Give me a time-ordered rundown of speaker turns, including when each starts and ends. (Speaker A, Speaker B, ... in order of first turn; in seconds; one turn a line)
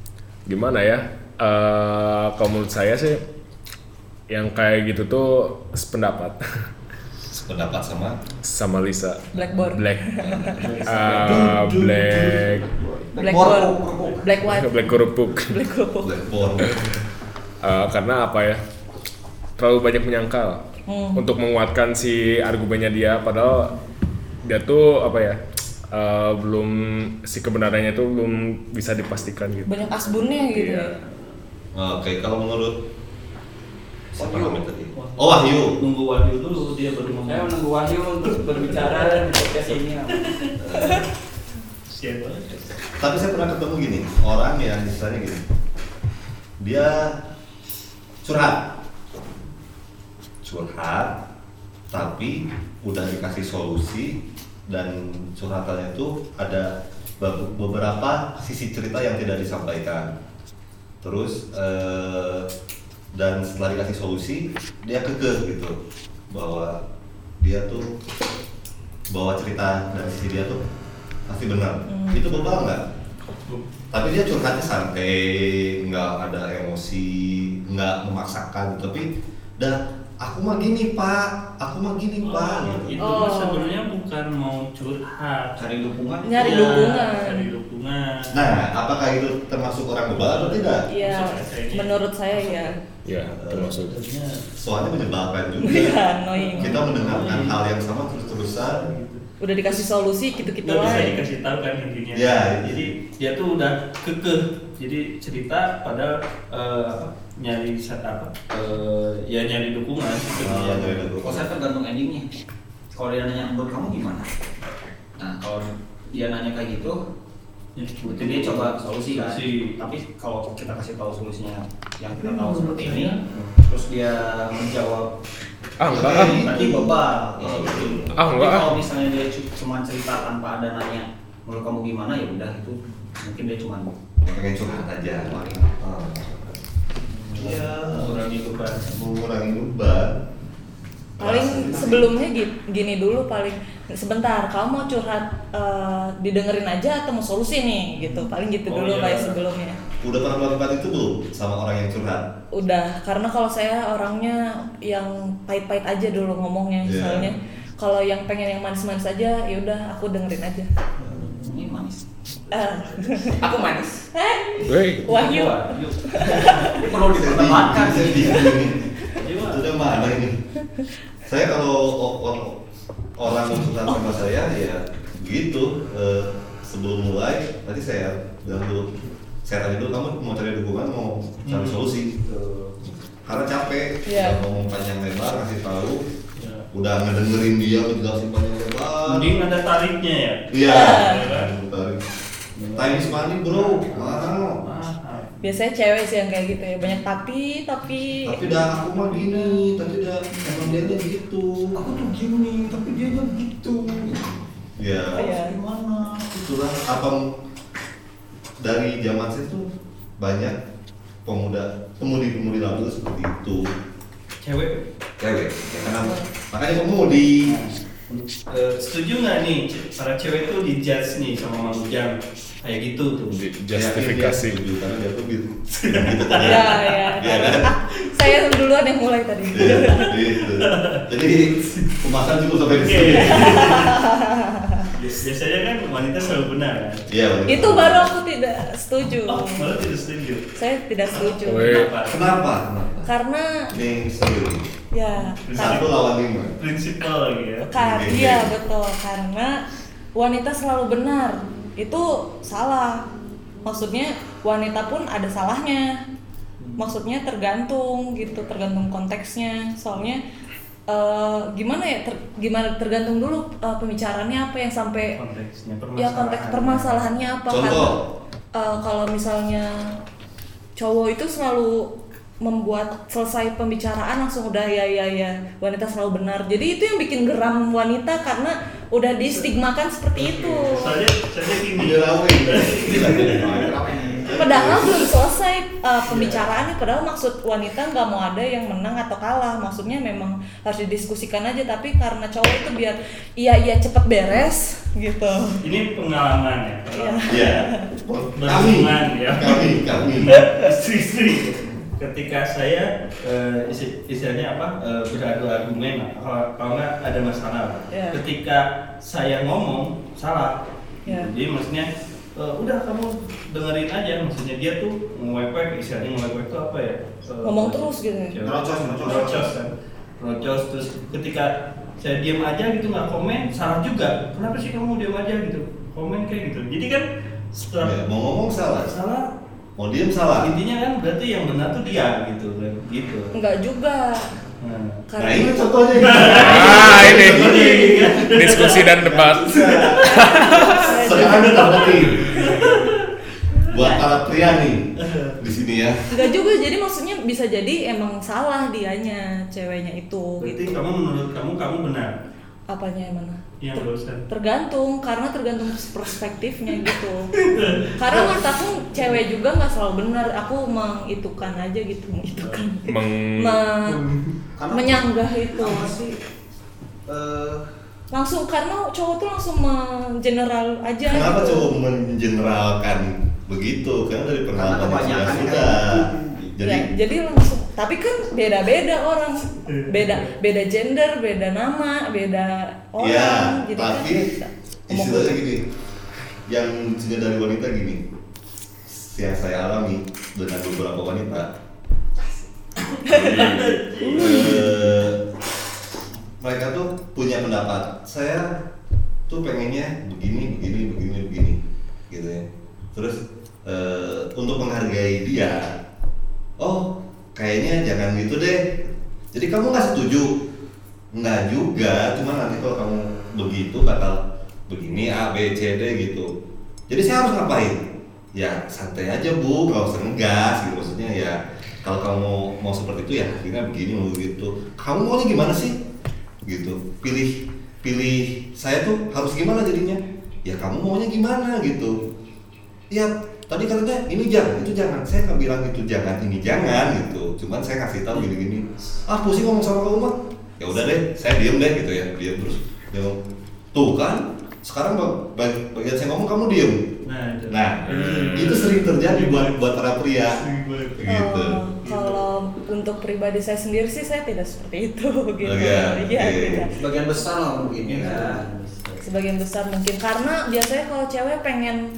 Speaker A: 0.5-3.2
Speaker A: 4.3-6.4
Speaker B: 7.3-8.2
Speaker A: 8.5-12.8
Speaker C: 9.3-10.6
Speaker D: 10.6-13.0
Speaker E: 11.2-11.8
Speaker E: 13.1-14.5
Speaker C: 13.2-16.1
Speaker A: 14.4-15.6
Speaker B: 16.0-16.8
Speaker A: 16.6-16.9
Speaker A: 17.6-18.6
Speaker A: 19.6-20.6
Speaker C: 20.9-21.2
Speaker A: 21.1-23.7
Speaker A: 24.4-25.4
Speaker A: 25.9-30.9
Speaker C: 29.6-30.9
Speaker B: 31.7-32.8
Speaker B: 34.1-35.8
Speaker F: 34.1-34.6
Speaker D: 34.9-37.5
Speaker F: 37.2-40.3
Speaker D: 38.3-40.5
Speaker B: 40.6-41.0
Speaker D: 41.9-42.7
Speaker B: 43.0-45.4
Speaker B: 46.6-47.1
Speaker B: 48.2-48.7
Speaker B: 50.4-51.2
Speaker B: 51.9-60.1
Speaker B: 61.0-62.5
Speaker B: 63.1-65.8
Speaker B: 66.3-66.8
Speaker B: 67.4-67.9
Speaker B: 69.1-70.6
Speaker B: 71.3-72.8
Speaker C: 71.9-72.2
Speaker B: 73.9-83.3
Speaker D: 82.2-88.4
Speaker C: 83.0-83.8
Speaker E: 85.6-86.9
Speaker C: 86.2-87.5
Speaker B: 88.3-90.9
Speaker D: 90.1-92.7
Speaker C: 90.9-92.8
Speaker A: 93.0-94.0
Speaker B: 93.1-93.8
Speaker D: 93.9-94.5
Speaker B: 94.6-96.0
Speaker C: 95.6-96.8
Speaker D: 96.3-99.2
Speaker B: 96.6-98.8
Speaker C: 99.4-101.2
Speaker D: 100.4-111.1
Speaker B: 100.8-101.1
Speaker B: 102.1-102.9
Speaker B: 110.4-111.5
Speaker E: 111.2-112.3
Speaker E: 112.9-114.3
Speaker E: 115.2-117.0
Speaker D: 117.8-119.7
Speaker E: 118.0-125.1
Speaker D: 122.2-123.2
Speaker A: 125.8-126.5
Speaker E: 125.9-134.4
Speaker B: 125.9-128.2
Speaker A: 128.1-128.7
Speaker B: 134.2-136.6
Speaker E: 135.1-135.5
Speaker E: 137.2-138.1
Speaker D: 137.3-138.9
Speaker B: 138.9-140.2
Speaker B: 141.2-142.1
Speaker C: 141.2-149.8
Speaker D: 148.0-149.4
Speaker B: 150.0-152.3
Speaker C: 152.5-160.7
Speaker B: 156.8-157.3
Speaker E: 161.0-162.1
Speaker D: 161.0-161.6
Speaker C: 162.5-166.9
Speaker F: 163.4-164.0
Speaker A: 164.7-165.1
Speaker D: 165.1-166.8
Speaker E: 165.1-165.7
Speaker E: 166.8-168.6
Speaker B: 166.9-170.3
Speaker D: 169.1-169.7
Speaker B: 171.2-172.6
Speaker B: 173.2-178.9
Speaker B: 179.4-182.1
Speaker D: 181.4-182.7
Speaker B: 183.2-186.0
Speaker C: 184.1-184.4
Speaker D: 186.3-186.7
Speaker B: 186.7-189.4
Speaker D: 189.1-191.5
Speaker B: 190.5-192.0
Speaker C: 190.7-191.2
Speaker D: 192.6-195.5
Speaker B: 192.7-194.6
Speaker C: 195.4-198.5
Speaker B: 198.2-201.9
Speaker E: 200.5-200.9
Speaker E: 201.8-204.3
Speaker B: 204.8-205.2
Speaker E: 205.0-206.4
Speaker C: 205.1-205.5
Speaker B: 206.3-207.3
Speaker B: 208.6-209.7
Speaker B: 210.2-210.6
Speaker B: 211.2-213.7
Speaker D: 214.4-214.8
Speaker B: 215.2-217.6
Speaker C: 215.9-216.3
Speaker D: 217.4-223.4
Speaker A: 223.3-224.6
Speaker B: 223.7-227.7
Speaker D: 225.7-226.8
Speaker C: 226.4-230.1
Speaker B: 229.5-233.8
Speaker D: 230.1-231.9
Speaker D: 232.8-234.0
Speaker C: 233.2-234.9
Speaker D: 234.9-237.0
Speaker B: 237.1-238.1
Speaker C: 237.5-239.6
Speaker D: 239.2-240.5
Speaker C: 240.6-241.9
Speaker D: 241.1-242.3
Speaker A: 241.4-241.9
Speaker B: 242.1-243.1
Speaker C: 243.1-243.7
Speaker B: 243.7-244.7
Speaker C: 244.9-245.8
Speaker D: 245.2-246.0
Speaker B: 245.5-246.6
Speaker D: 246.6-247.7
Speaker C: 247.7-249.6
Speaker B: 247.8-248.5
Speaker C: 250.2-253.0
Speaker C: 253.6-255.9
Speaker D: 256.6-256.9
Speaker C: 256.8-260.2
Speaker C: 260.9-265.1
Speaker D: 265.1-267.1
Speaker C: 266.0-267.9
Speaker B: 267.5-268.0
Speaker C: 268.6-269.7
Speaker C: 270.8-271.9
Speaker C: 272.4-280.9
Speaker D: 280.1-283.6
Speaker B: 281.8-285.1
Speaker E: 283.2-284.4
Speaker C: 284.3-295.6
Speaker D: 286.1-286.4
Speaker D: 295.6-297.6
Speaker C: 297.0-297.8
Speaker B: 297.3-300.4
Speaker D: 298.3-328.0
Speaker C: 307.9-308.2
Speaker C: 317.4-318.4
Speaker B: 318.4-319.5
Speaker C: 319.0-319.4
Speaker B: 327.8-328.9
Speaker D: 328.9-329.3
Speaker B: 329.8-330.5
Speaker D: 330.4-333.3
Speaker C: 333.3-334.3
Speaker D: 334.6-335.0
Speaker C: 335.1-336.4
Speaker B: 335.2-338.1
Speaker D: 335.9-338.9
Speaker A: 336.4-340.8
Speaker E: 339.0-340.0
Speaker C: 340.0-342.7
Speaker B: 340.8-342.4
Speaker D: 341.0-343.1
Speaker B: 343.7-346.0
Speaker D: 345.0-345.4
Speaker C: 346.1-350.8
Speaker D: 350.4-352.1
Speaker C: 352.7-357.3
Speaker D: 353.6-354.2
Speaker D: 356.8-359.2
Speaker C: 358.0-364.0
Speaker A: 362.9-363.6
Speaker D: 364.0-364.3
Speaker E: 364.6-366.2
Speaker C: 364.7-365.9
Speaker E: 367.1-367.6
Speaker C: 368.1-371.6
Speaker B: 371.1-376.9
Speaker E: 374.5-376.5
Speaker C: 376.6-385.4
Speaker D: 379.7-380.3
Speaker B: 383.0-384.3
Speaker B: 384.9-385.6
Speaker B: 386.5-388.0
Speaker B: 388.9-391.5
Speaker C: 393.0-393.5
Speaker A: 393.1-393.7
Speaker D: 393.1-395.0
Speaker B: 393.1-395.2
Speaker B: 396.4-398.6
Speaker B: 399.3-405.8
Speaker B: 406.6-410.3
Speaker B: 411.1-416.3
Speaker B: 416.9-425.8
Speaker B: 426.4-431.9
Speaker B: 432.9-443.2
Speaker B: 443.7-446.9
Speaker D: 447.0-449.6
Speaker B: 447.5-450.4
Speaker D: 450.4-451.1
Speaker B: 450.9-451.6
Speaker C: 451.1-456.7
Speaker D: 451.8-452.2
Speaker B: 455.4-456.7
Speaker E: 456.8-458.4
Speaker D: 457.8-459.0
Speaker B: 457.9-458.2
Speaker C: 459.0-461.8